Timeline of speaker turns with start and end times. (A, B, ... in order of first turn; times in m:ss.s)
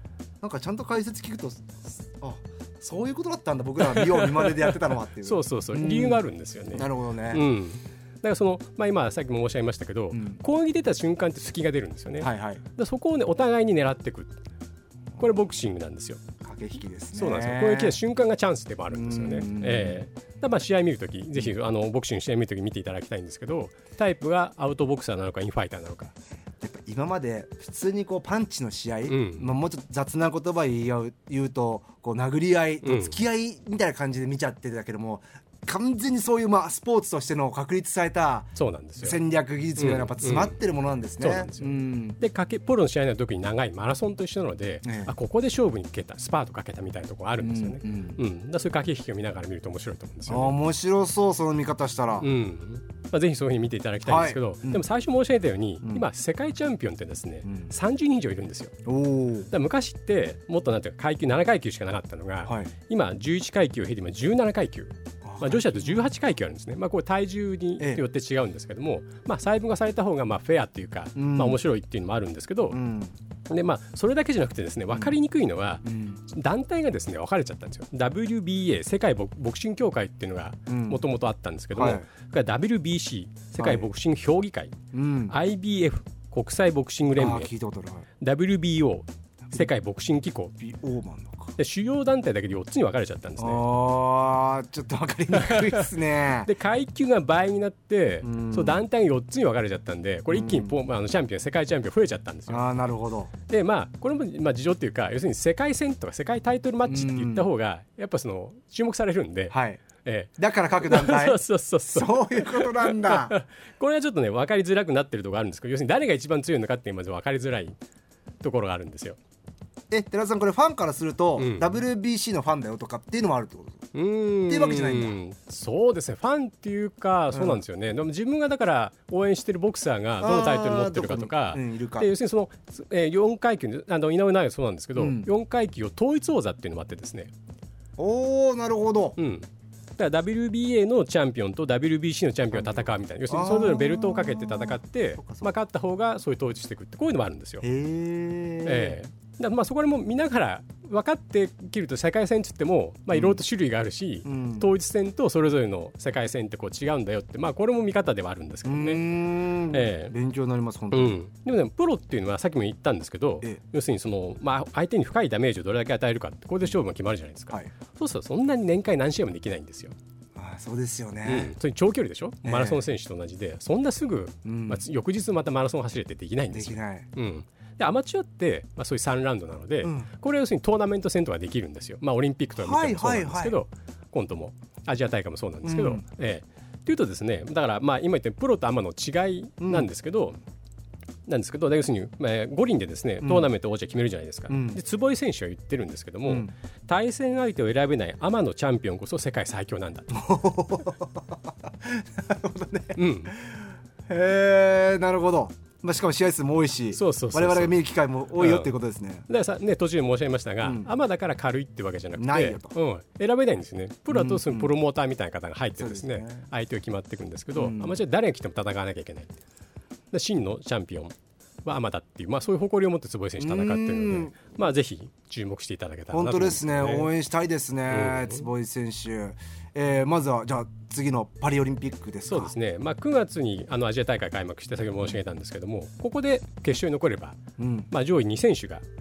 0:00.4-0:07.4 A
0:03.8-0:14.4 B
0:10.1-0:10.4 A
0:12.2-0:12.6 A
0:15.2-0:16.2 B
0:16.4-0:18.0 A
0:17.2-0:26.1 B
0:18.9-0:20.0 A
0:26.6-0:42.2 A
0:29.1-0:29.6 B
0:32.8-0:33.2 B
0:38.6-0:39.2 B
0:39.8-0:40.6 B
0:41.2-0:50.6 B
0:44.8-0:45.1 A
0:47.4-0:48.2 A
0:50.3-0:52.3 A
0:52.2-0:58.8 B
0:54.0-0:54.8 A
0:57.5-0:57.7 A
0:58.9-0:59.5 A
0:59.5-1:12.8 B
1:02.4-1:02.7 A
1:05.2-1:06.1 A
1:07.8-1:08.0 A
1:11.2-1:11.6 A
1:12.7-1:13.1 A
1:13.5-1:24.8 B
1:15.8-1:16.2 A
1:20.7-1:21.0 A
1:21.7-1:22.0 A
1:23.6-1:23.9 A
1:24.9-1:25.4 A
1:25.3-1:27.5 B
1:27.1-1:28.1 A
1:28.2-1:30.6 B
1:30.6-1:31.6 A
1:31.6-1:33.6 B
1:33.4-1:36.5 A
1:35.3-1:35.9 B
1:36.5-1:42.6 B
1:38.2-1:38.8 A
1:40.3-1:40.8 A
1:42.5-1:43.3 A
1:43.5-1:57.8 B
1:46.9-1:47.5 A
1:49.5-1:49.8 A
1:50.4-1:51.4 A
1:51.9-1:53.4 A
1:58.4-1:59.2 B
1:59.9-2:03.9 A
2:01.4-2:01.8 B
2:03.9-2:17.3 B
2:04.5-2:05.2 A
2:07.3-2:07.6 A
2:10.2-2:12.1 A
2:15.0-2:15.3 A
2:18.0-2:19.2 A
2:19.2-2:27.6 B
2:22.5-2:25.5 A
2:27.6-2:29.0 A
2:28.6-2:39.0 B
2:33.1-2:33.4 A
2:34.2-2:34.7 A
2:38.6-2:41.2 A
2:39.7-2:40.1 B
2:40.9-2:50.0 B
2:50.4-2:51.5 A
2:51.2-3:10.4 B
2:52.4-2:52.9 A
2:54.4-2:54.8 A
2:56.5-2:57.1 A
2:59.8-3:00.1 A
3:02.6-3:03.6 A
3:05.6-3:06.0 A
3:09.6-3:09.9 A
3:11.3-3:20.2 B
3:13.2-3:13.5 A
3:14.5-3:14.8 A
3:16.3-3:16.5 A
3:20.1-3:23.6 A
3:23.0-3:23.4 B
3:24.1-3:29.3 A
3:26.9-3:27.8 B
3:28.4-3:28.7 B
3:29.3-3:39.3 B
3:30.6-3:30.9 A
3:32.2-3:32.7 A
3:34.1-3:34.7 A
3:35.8-3:36.5 A
3:37.5-3:38.0 A
3:40.1-3:47.1 B
3:43.4-3:44.5 A
3:46.1-3:52.5 A
3:47.9-3:48.5 B
3:52.3-3:57.4 B
3:57.6-3:57.9 A
3:57.9-3:58.8 B